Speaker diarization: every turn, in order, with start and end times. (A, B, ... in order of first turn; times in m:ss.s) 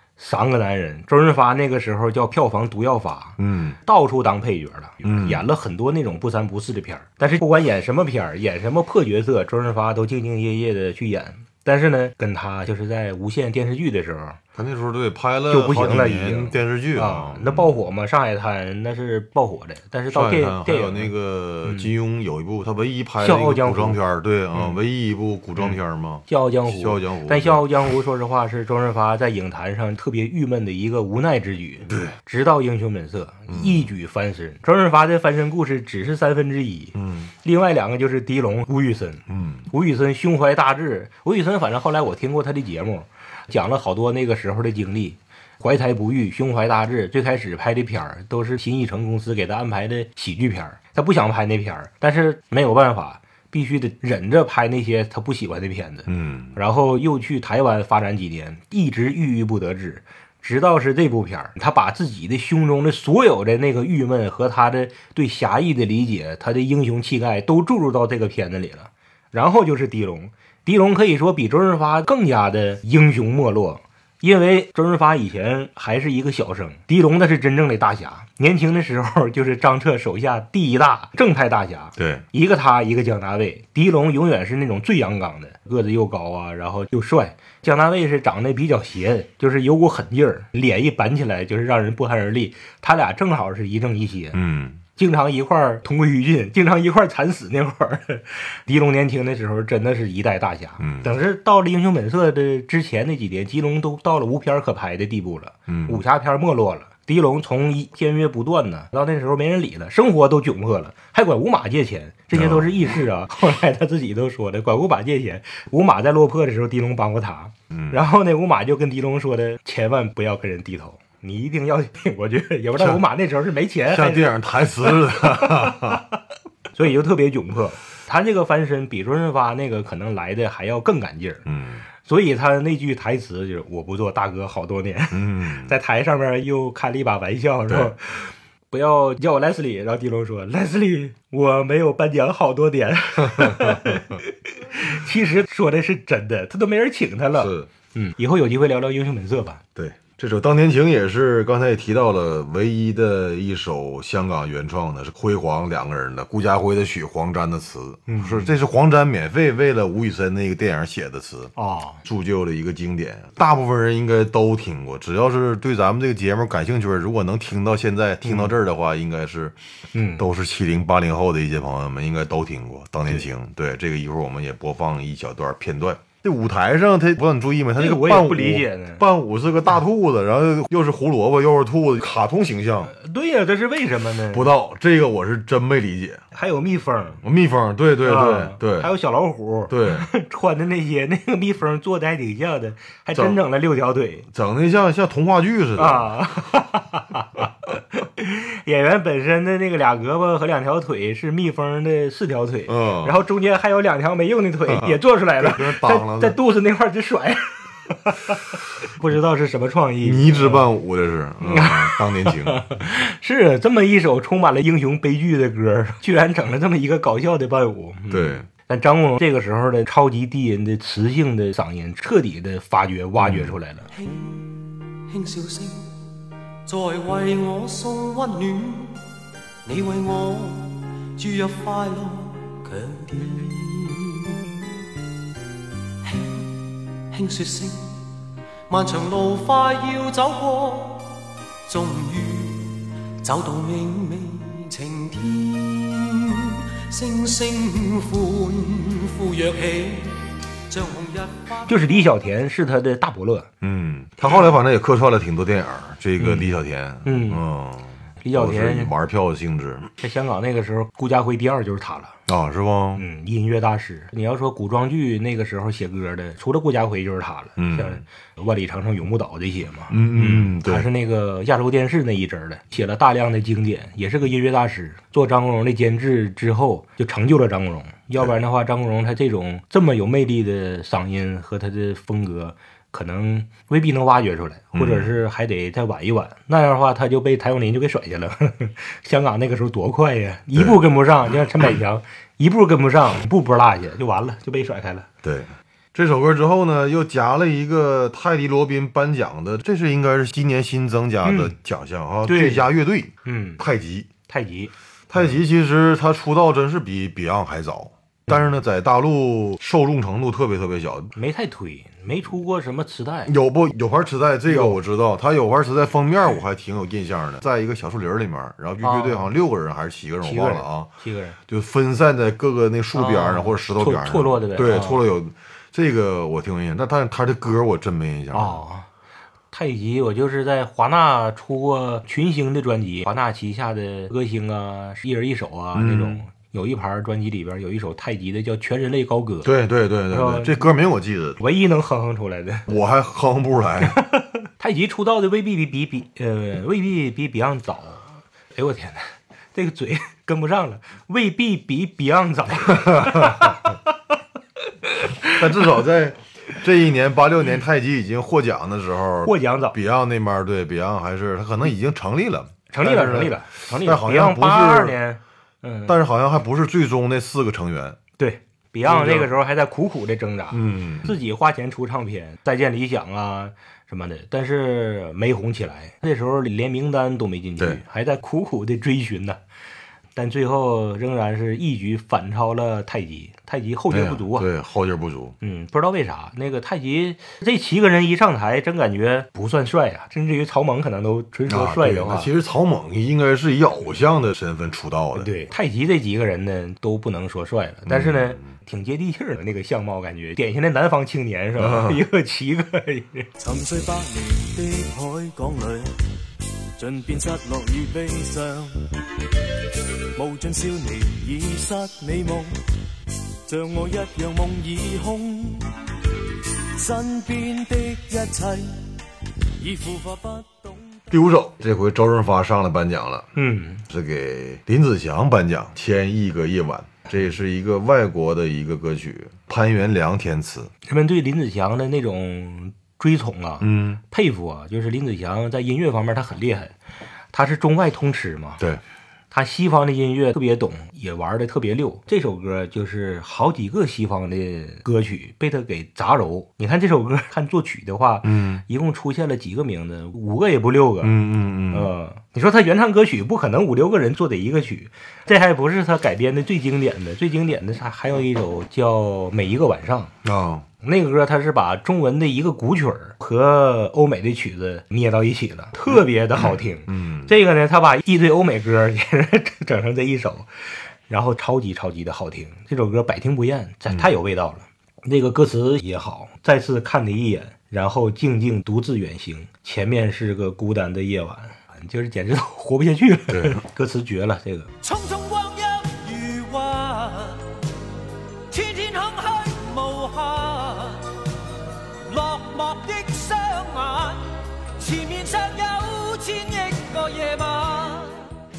0:00.2-0:14.4 A
0:03.4-0:03.8 B
0:05.0-0:05.4 B
0:14.6-0:17.8 B
0:15.5-0:21.1 A
0:20.1-0:27.7 B
0:21.6-0:21.9 A
0:23.2-0:24.0 A
0:25.6-1:34.4 A
0:31.9-0:32.2 B
0:33.5-0:33.9 B
0:37.0-0:37.3 B
0:39.3-0:39.7 B
0:56.1-0:56.6 B
1:22.0-1:22.2 B
1:34.3-1:34.8 B
1:35.0-2:06.1 A
1:40.8-1:41.1 B
1:45.7-1:46.0 B
1:52.3-1:52.7 B
1:57.7-1:58.0 B
2:03.9-2:06.0 B
2:06.7-2:11.4 A
2:11.4-2:11.8 B
2:12.0-2:29.6 A
2:15.1-2:15.8 B
2:17.7-2:17.9 B
2:23.3-2:24.0 B
2:27.4-2:27.7 B
2:29.8-2:41.5 B
2:38.1-2:38.5 A
2:41.6-2:42.0 A
2:42.0-2:49.6 B
2:48.2-2:48.5 A
2:49.9-2:50.2 A
2:50.2-3:02.9 B
2:57.8-2:59.0 A
3:02.9-3:04.5 A
3:04.3-3:06.2 B
3:06.3-3:07.2 A
3:07.2-3:08.9 B
3:08.0-3:14.3 A
3:09.7-3:10.1 B
3:14.3-3:16.2 B
3:15.8-3:30.6 A
3:22.7-3:23.2 B
3:24.7-3:26.4 B
3:30.0-3:32.6 B
3:31.4-3:43.9 A
3:38.1-3:38.5 B
3:43.2-3:43.6 B
3:43.9-3:46.0 C
3:46.7-3:49.0 C
3:49.6-3:54.4 C
3:56.0-3:58.1 C
3:58.7-4:11.9 C
4:11.7-4:13.5 A
4:13.6-4:19.9 B
4:16.2-4:17.4 A
4:18.2-4:18.9 A
4:20.0-4:22.2 A
4:22.3-4:23.0 B
4:23.0-4:55.1 A
4:27.6-4:28.0 B
4:29.9-4:30.9 B
4:44.7-4:45.2 B
4:50.6-4:50.8 B
4:55.2-5:04.1 B
5:01.2-5:01.6 A
5:02.3-5:02.7 A
5:03.2-5:03.6 A
5:04.3-5:05.3 A
5:05.1-5:11.1 B
5:11.2-5:13.3 A
5:13.3-5:20.9 B
5:14.5-5:14.8 A
5:18.8-5:19.3 A
5:20.2-5:21.4 A
5:21.5-5:28.6 B
5:22.9-5:25.0 A
5:28.3-5:28.9 A
5:29.5-5:39.5 A
5:35.8-5:36.2 B
5:39.4-5:41.4 B
5:40.1-5:40.7 A
5:41.4-5:42.7 A
5:42.7-5:44.0 B
5:43.8-5:55.8 A
5:52.8-5:53.5 B
5:55.2-6:05.0 B
5:59.2-5:59.8 A
6:02.7-6:06.0 A
6:05.9-6:08.0 B
6:08.2-6:19.4 A
6:08.9-6:09.3 B
6:10.5-6:11.2 B
6:20.2-6:24.5 A
6:23.9-6:25.4 B
6:25.4-6:32.3 A
6:31.5-6:35.3 B
6:35.1-6:43.3 A
6:37.9-6:38.5 B
6:41.6-6:42.0 B
6:43.4-6:46.0 D
6:46.8-6:49.0 D
6:50.2-6:52.5 D
6:53.5-6:55.7 D
6:56.8-6:58.9 D
6:59.6-7:01.0 D
7:01.1-7:03.3 B
7:03.4-7:03.8 A
7:03.9-7:10.7 B
7:10.8-7:16.7 A
7:13.6-7:14.0 B
7:17.3-7:18.6 A
7:19.3-7:31.2 A
7:28.2-7:28.6 B
7:31.0-7:31.9 B
7:31.7-7:40.1 A
7:40.2-7:40.7 B
7:40.8-7:50.5 A
7:46.9-7:47.3 B
7:51.1-8:04.7 A
8:03.3-8:03.6 B
8:04.8-8:07.5 C
8:08.5-8:11.1 C
8:12.1-8:18.3 C